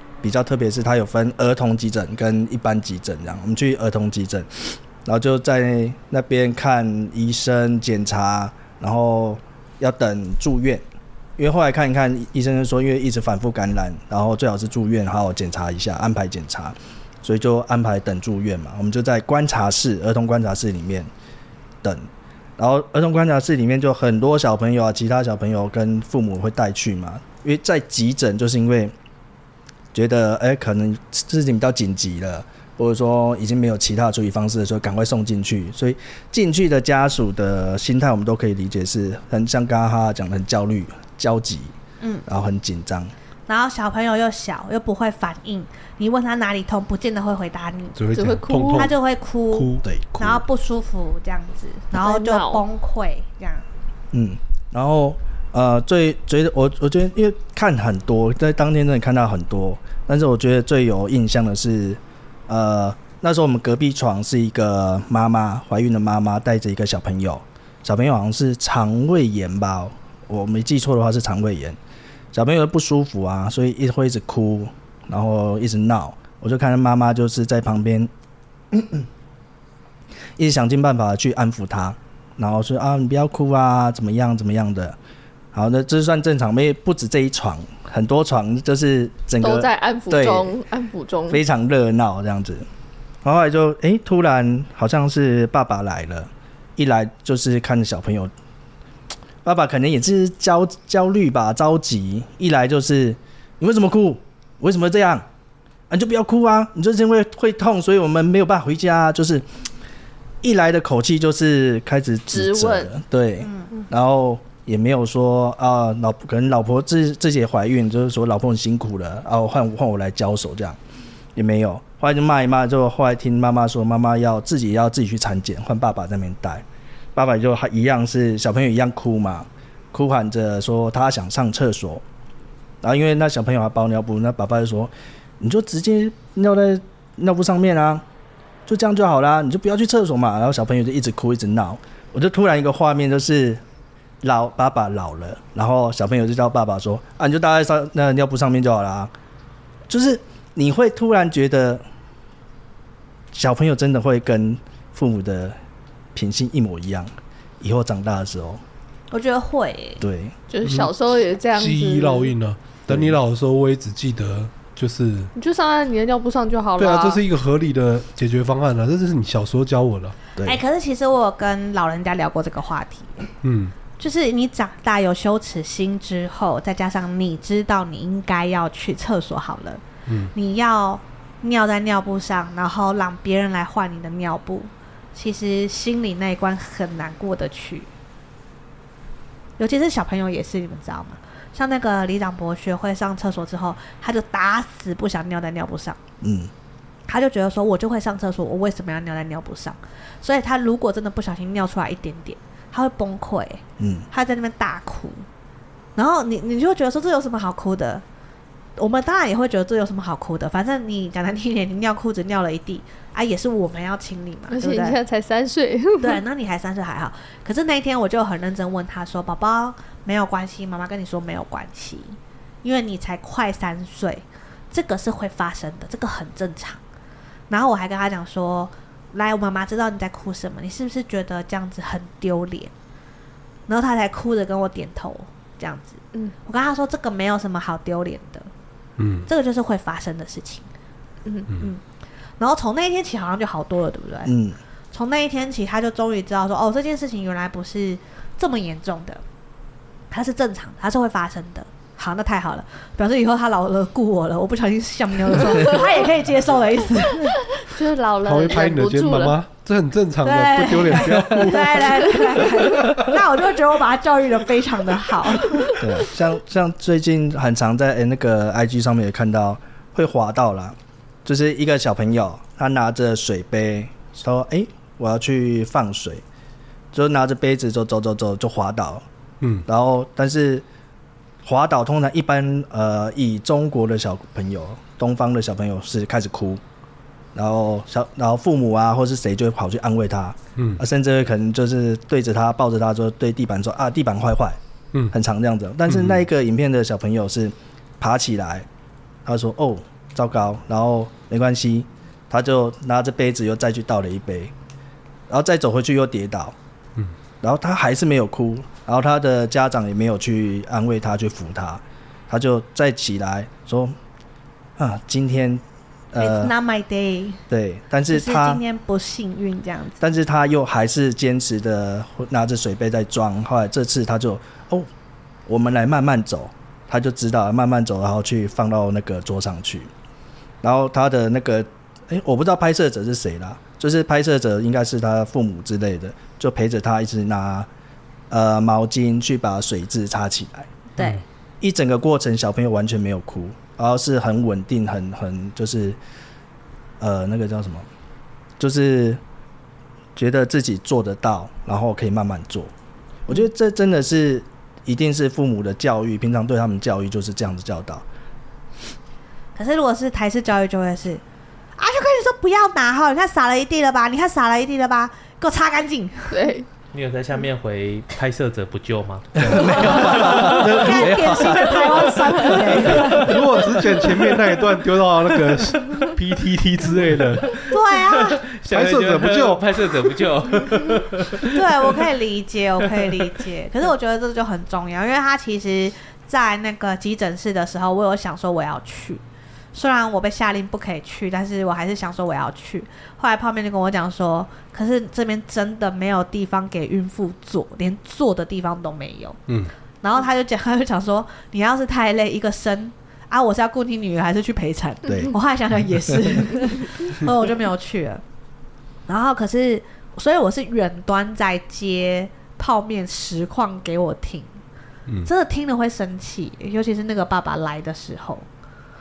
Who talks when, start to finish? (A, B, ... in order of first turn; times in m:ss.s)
0:00.2-0:10.8 A
0:11.4-0:21.1 A
0:22.6-0:28.9 A
0:29.9-0:41.7 A
0:42.0-0:42.3 B
0:42.3-0:43.1 A
0:43.5-0:48.0 B
0:48.0-0:49.0 C
0:48.1-0:48.9 D
0:48.7-0:53.6 B
0:49.5-0:49.9 C
0:49.8-0:50.4 A
0:52.0-0:52.6 D
0:54.1-1:11.8 A
1:12.3-1:18.1 A
1:18.7-1:19.1 A
1:20.4-1:25.0 A
1:25.5-1:30.6 A
1:29.4-1:31.4 D
1:31.3-1:32.6 A
1:33.2-1:38.3 A
1:39.4-1:45.3 A
1:45.9-1:49.4 A
1:50.4-2:00.8 A
1:52.3-1:52.9 D
1:53.4-1:53.7 B
2:01.4-2:12.0 A
2:12.8-2:18.0 A
2:18.7-2:23.6 A
2:24.2-2:29.1 A
2:29.9-2:31.8 A
2:33.3-2:35.6 A
2:36.2-2:38.6 A
2:39.1-2:40.0 B
2:40.0-2:40.3 A
2:40.5-2:42.3 D
2:40.6-2:40.9 C
2:41.6-2:45.3 C
2:42.9-2:43.2 A
2:45.4-2:47.2 D
2:46.8-2:50.2 C
2:50.4-2:53.3 B
2:53.4-2:53.7 C
2:54.0-2:59.8 B
3:00.1-3:00.3 C
3:00.3-3:07.9 B
3:09.6-3:16.0 B
3:16.2-3:16.5 A
3:17.1-3:25.3 B
3:23.8-3:24.1 A
3:26.0-3:28.0 B
3:28.8-3:35.0 B
3:34.5-3:36.2 D
3:36.0-3:46.8 B
3:47.5-3:52.7 B
3:53.7-3:58.5 B
3:59.0-3:59.3 C
3:59.3-4:00.7 B
4:01.2-4:01.5 D
4:01.6-4:01.8 B
4:02.4-4:04.3 B
4:04.3-4:04.6 A
4:04.9-4:09.2 B
4:10.1-4:17.4 B
4:17.3-4:19.4 D
4:18.2-4:23.1 C
4:20.2-4:25.8 B
4:22.3-4:22.9 D
4:25.5-4:25.9 D
4:25.8-4:36.2 A
4:36.9-4:39.0 A
4:39.7-4:40.6 A
4:41.4-4:46.6 A
4:47.4-4:54.6 A
4:50.6-4:50.8 C
4:55.1-4:58.7 A
4:55.9-4:56.2 C
4:59.2-5:04.5 A
5:05.3-5:06.6 A
5:07.4-5:14.0 A
5:14.8-5:16.6 A
5:16.2-5:17.4 B
5:17.5-5:18.6 A
5:18.1-5:20.0 B
5:20.0-5:24.9 A
5:25.5-5:29.9 A
5:30.6-5:37.7 A
5:38.3-5:40.7 A
5:41.0-5:41.2 B
5:41.6-5:46.0 A
5:47.0-5:47.9 A
5:48.6-5:49.2 A
5:50.2-5:52.7 A
5:53.3-5:58.0 A
5:59.6-6:01.2 B
6:01.8-6:06.5 B
6:06.3-6:06.7 D
6:06.9-6:13.3 E
6:09.4-6:11.7 A
6:09.4-6:11.6 C
6:09.6-6:13.4 B
6:12.2-6:12.8 D
6:12.8-6:17.6 C
6:15.7-6:16.0 E
6:17.5-6:22.0 E
6:17.7-6:18.4 B
6:18.7-6:19.6 C
6:21.5-6:29.2 B
6:29.7-6:39.4 B
6:40.0-6:48.2 B
6:45.1-6:45.3 A
6:46.1-6:46.4 A
6:49.1-6:54.6 B
6:55.2-6:58.5 B